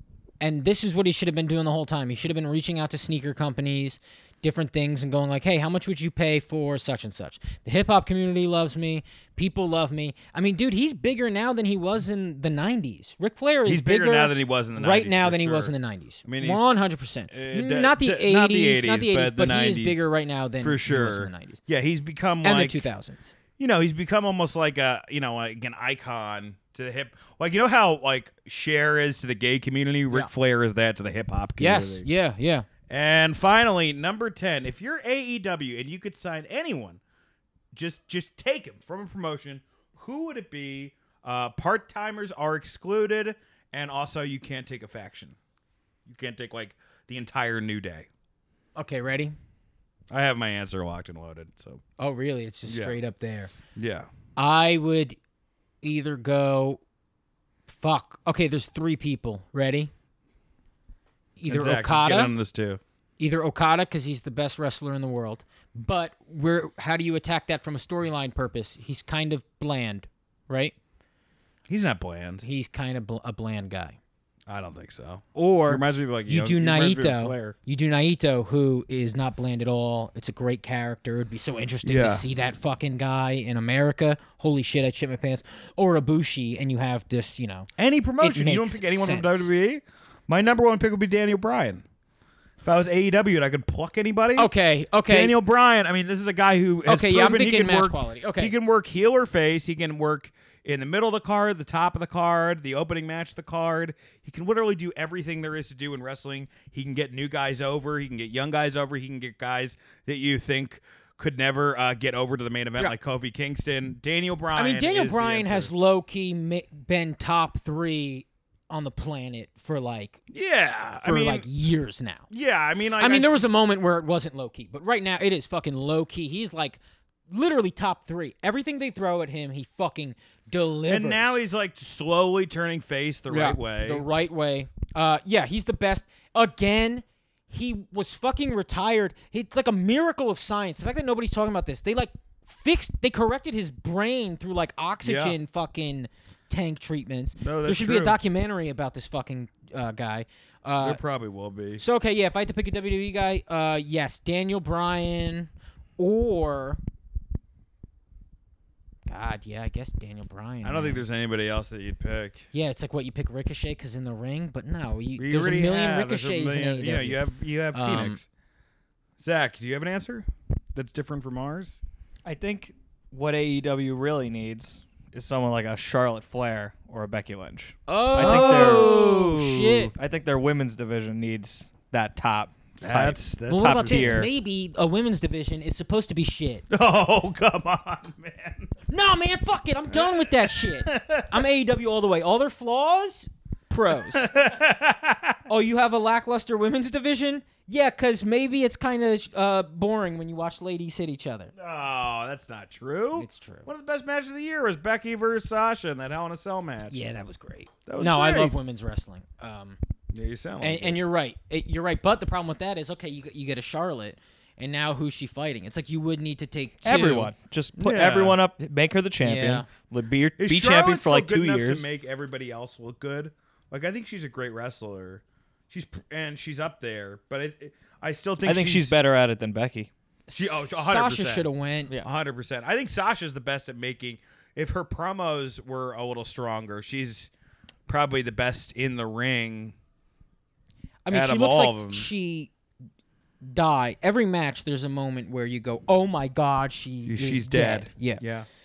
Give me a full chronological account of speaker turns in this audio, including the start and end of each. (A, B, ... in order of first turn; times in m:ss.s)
0:00.4-0:21.6 A
0:13.6-0:15.7 B
0:16.2-0:16.7 B
0:17.3-0:20.1 B
0:20.6-0:22.9 B
0:22.4-0:23.3 A
0:23.6-0:32.0 B
0:31.6-0:32.7 A
0:32.9-0:37.0 B
0:37.7-0:45.4 B
0:46.0-0:48.1 B
0:48.8-0:49.3 A
0:50.1-0:51.8 B
0:52.0-0:53.5 A
0:52.7-0:53.0 B
0:53.8-0:54.1 B
0:54.4-0:55.2 A
0:55.8-0:56.8 A
0:57.7-0:59.9 A
1:01.4-1:02.3 A
1:01.5-1:02.8 B
1:03.2-1:10.7 A
1:11.7-1:12.4 B
1:12.4-1:14.0 A
1:14.5-1:17.6 B
1:15.3-1:27.7 A
1:21.8-1:22.2 B
1:27.8-1:31.8 B
1:28.2-1:29.5 A
1:32.6-1:34.5 B
1:34.4-1:35.4 A
1:35.1-1:55.7 B
1:36.8-1:38.5 A
1:54.5-2:00.2 A
2:00.3-2:01.4 B
2:01.0-2:02.2 A
2:02.3-2:03.4 B
2:03.0-2:11.4 A
2:10.9-2:14.0 B
2:13.3-2:31.0 A
2:25.0-2:25.4 B
2:27.4-2:28.2 B
2:30.8-2:31.8 B
2:31.8-2:36.8 A
2:39.1-2:41.0 A
2:40.6-2:42.5 B
2:42.5-2:47.2 A
2:45.2-2:48.2 B
2:47.7-2:48.2 A
2:49.2-2:51.8 B
2:52.2-2:59.2 C
2:57.9-2:59.9 A
2:58.2-2:59.9 B
2:59.9-3:04.3 C
3:02.8-3:04.3 B
3:03.5-3:06.6 A
3:06.7-3:08.7 B
3:08.9-3:14.3 A
3:09.9-3:11.4 B
3:14.1-3:15.4 B
3:15.5-3:21.5 A
3:21.6-3:27.0 B
3:23.2-3:23.7 A
3:26.9-3:29.8 A
3:27.8-3:28.5 B
3:30.1-3:31.0 B
3:30.6-3:37.3 A
3:36.8-3:41.8 C
3:37.8-3:38.4 B
3:39.2-3:39.7 A
3:40.4-3:48.9 B
3:48.4-3:49.9 C
3:50.3-3:52.0 A
3:50.3-3:51.5 B
3:52.0-3:57.3 B
3:57.9-3:59.7 B
4:01.0-4:02.5 A
4:01.1-4:02.1 B
4:03.4-4:08.2 A
4:07.0-4:08.5 B